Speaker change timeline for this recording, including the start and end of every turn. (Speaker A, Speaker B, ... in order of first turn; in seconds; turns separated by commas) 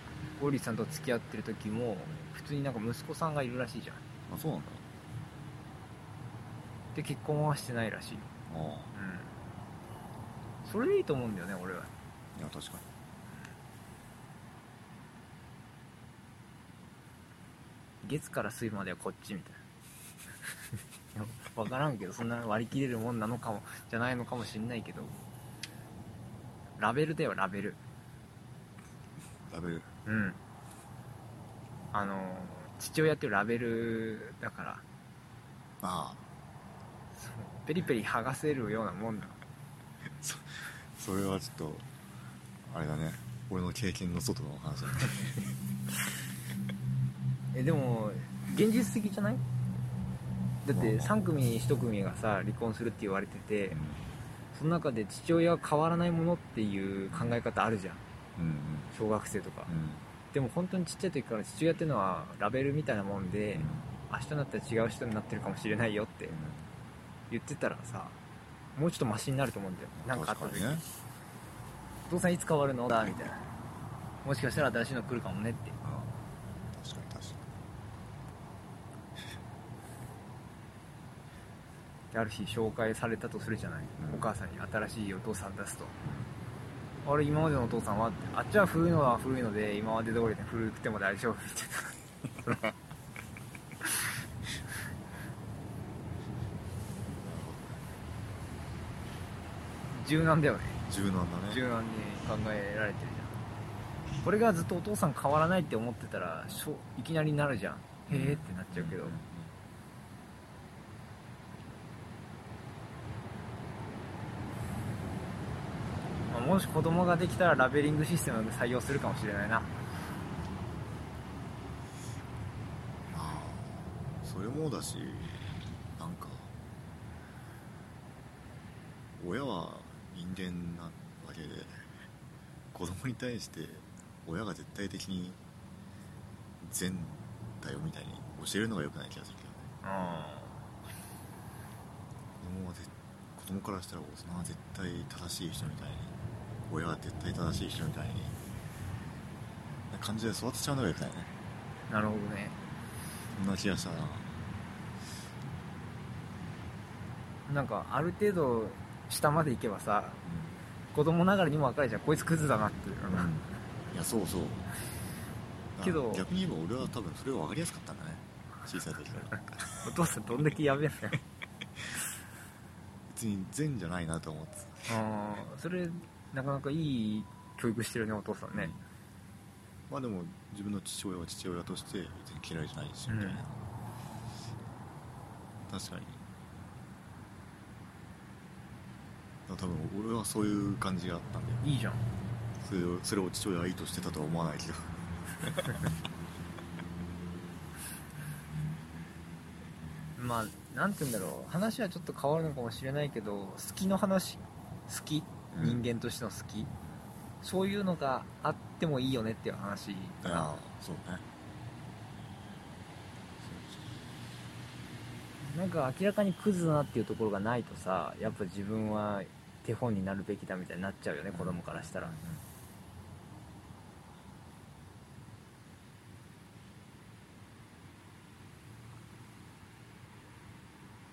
Speaker A: 0.4-4.0, Speaker B: 4.3-4.8, Speaker A: 6.9-8.3, Speaker B: 8.5-8.9, Speaker A: 8.9-9.3, Speaker A: 10.6-11.9, Speaker B: 12.4-12.9, Speaker A: 18.0-19.6, Speaker A: 21.1-25.2, Speaker A: 26.8-27.8, Speaker B: 29.5-29.9, Speaker A: 30.1-30.4, Speaker A: 31.9-34.9, Speaker B: 35.8-36.3, Speaker A: 37.1-39.4, Speaker B: 40.2-41.9, Speaker B: 42.7-45.3, Speaker A: 47.5-49.4, Speaker A: 50.6-53.8, Speaker B: 50.7-51.1, Speaker B: 53.7-54.1, Speaker A: 54.5-58.0, Speaker B: 58.4-58.9, Speaker A: 58.9-59.7, Speaker B: 59.7-60.0, Speaker A: 60.3-66.3, Speaker B: 63.5-63.9, Speaker B: 66.3-66.7, Speaker A: 67.3-68.2, Speaker A: 68.8-70.8, Speaker B: 70.0-70.8, Speaker A: 72.1-73.4, Speaker A: 74.2-75.8, Speaker B: 75.8-76.1, Speaker B: 76.7-77.5, Speaker A: 82.1-86.0, Speaker B: 84.0-84.3, Speaker A: 87.0-92.6, Speaker B: 97.2-97.9, Speaker A: 99.9-100.8, Speaker B: 100.9-101.6, Speaker A: 101.5-103.4, Speaker A: 104.2-109.2, Speaker B: 108.1-109.5, Speaker A: 116.3-119.7, Speaker B: 123.1-126.5, Speaker B: 129.2-131.9, Speaker B: 132.7-135.4, Speaker B: 136.6-139.7, Speaker A: 139.8-140.6, Speaker B: 142.4-146.2, Speaker B: 146.7-148.4, Speaker B: 149.9-151.3, Speaker A: 151.9-152.6, Speaker B: 153.3-154.4, Speaker A: 157.5-160.2, Speaker B: 160.2-160.6, Speaker A: 160.9-163.3, Speaker B: 163.1-164.7, Speaker B: 165.7-169.8, Speaker A: 165.8-166.3, Speaker A: 169.8-171.2, Speaker B: 173.1-175.0, Speaker A: 174.9-178.8, Speaker B: 179.9-183.6, Speaker A: 183.1-183.4, Speaker B: 185.7-186.2, Speaker B: 189.5-191.7, Speaker A: 191.6-192.0, Speaker B: 192.6-195.8, Speaker A: 200.2-206.7, Speaker B: 205.5-205.8, Speaker A: 207.4-210.6, Speaker B: 210.2-211.2, Speaker B: 213.4-213.9, Speaker A: 215.4-222.2, Speaker B: 221.3-222.4